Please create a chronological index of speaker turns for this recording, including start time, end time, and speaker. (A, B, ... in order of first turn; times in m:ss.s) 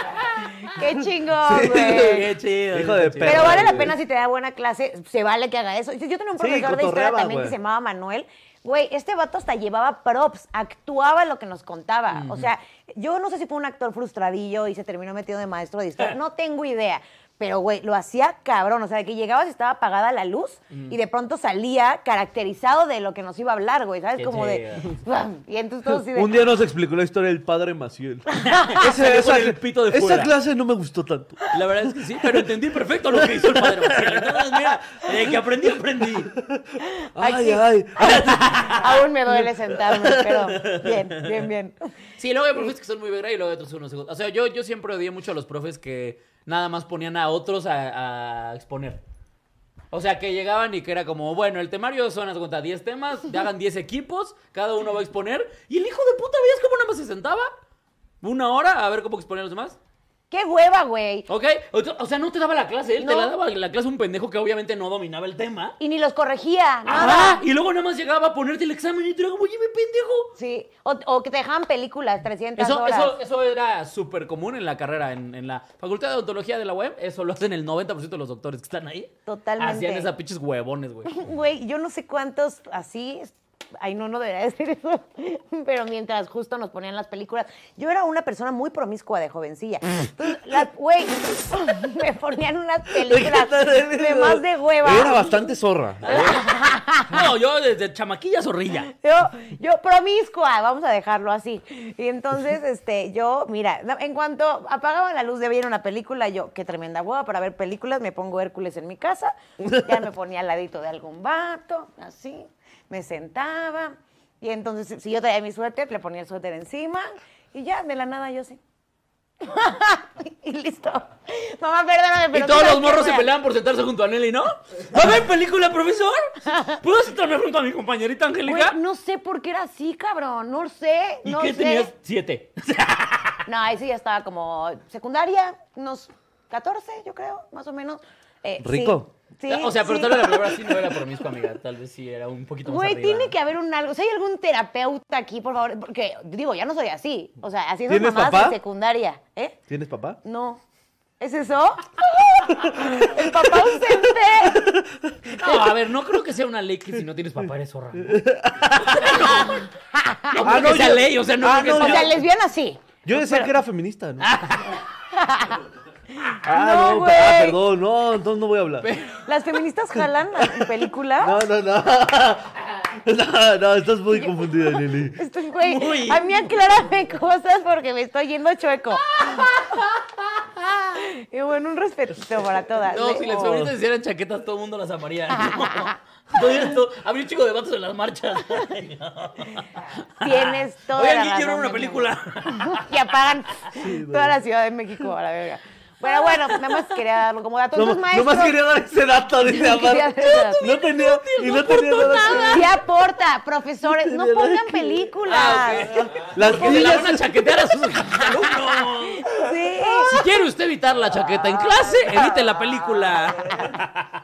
0:00.3-0:02.3 A
0:00.9-0:04.0 B
0:01.8-0:03.9 C
0:03.2-0:26.4 A
0:06.4-0:07.5 B
0:12.1-0:12.5 C
0:20.7-0:21.0 C
0:24.2-0:24.9 C
0:25.9-0:31.5 B
0:28.4-0:28.7 A
0:28.5-0:30.3 C
0:31.5-0:36.3 C
0:33.1-0:34.8 B
0:36.3-0:41.2 B
0:36.8-0:37.6 A
0:38.0-0:38.8 C
0:38.6-0:41.8 A
0:42.2-0:49.0 C
0:49.9-0:57.5 C
0:58.2-0:59.8 C
1:00.3-1:01.3 A
1:01.3-1:05.8 C
1:03.0-1:03.3 A
1:05.8-1:07.4 A
1:06.9-1:10.3 C
1:10.4-1:13.1 A
1:12.6-1:21.3 C
1:19.3-1:20.1 A
1:21.0-1:35.5 A
1:32.9-1:36.4 B
1:36.0-1:38.9 C
1:36.0-1:37.2 A
1:38.9-1:58.6 A
1:49.6-1:50.0 B
1:59.4-2:03.3 A
2:02.3-2:08.8 C
2:06.5-2:06.8 A
2:08.4-2:11.9 A
2:11.2-2:13.4 C
2:13.4-2:20.7 A
2:18.6-2:19.1 B
2:19.5-2:23.3 C
2:22.6-2:29.6 A
2:27.9-2:28.6 B
2:29.7-2:30.2 B
2:30.2-2:30.6 A
2:31.2-2:34.7 A
2:32.6-2:35.6 B
2:35.3-2:39.6 C
2:37.9-2:39.3 B
2:39.0-2:40.8 A
2:40.3-2:42.2 C
2:40.4-2:42.2 B
2:41.6-2:43.5 A
2:43.0-2:44.3 B
2:44.2-2:44.8 C
2:45.1-2:47.6 A
2:46.4-2:48.9 B
2:48.8-2:49.2 C
2:49.2-2:51.4 A
2:50.4-2:55.2 B
2:55.1-2:59.5 A
2:55.6-2:56.4 C
2:59.2-3:00.0 C
3:00.9-3:03.7 A
3:02.9-3:13.0 C
3:05.4-3:05.8 A
3:10.2-3:18.6 A
3:13.7-3:14.4 B
3:16.1-3:17.0 C
3:17.7-3:22.7 B
3:19.4-3:20.6 A
3:20.2-3:22.7 C
3:22.1-3:26.8 A
3:23.8-3:25.1 B
3:25.2-3:29.3 C
3:26.2-3:27.4 B
3:29.2-3:30.2 A
3:30.0-3:34.1 C
3:31.7-3:32.4 A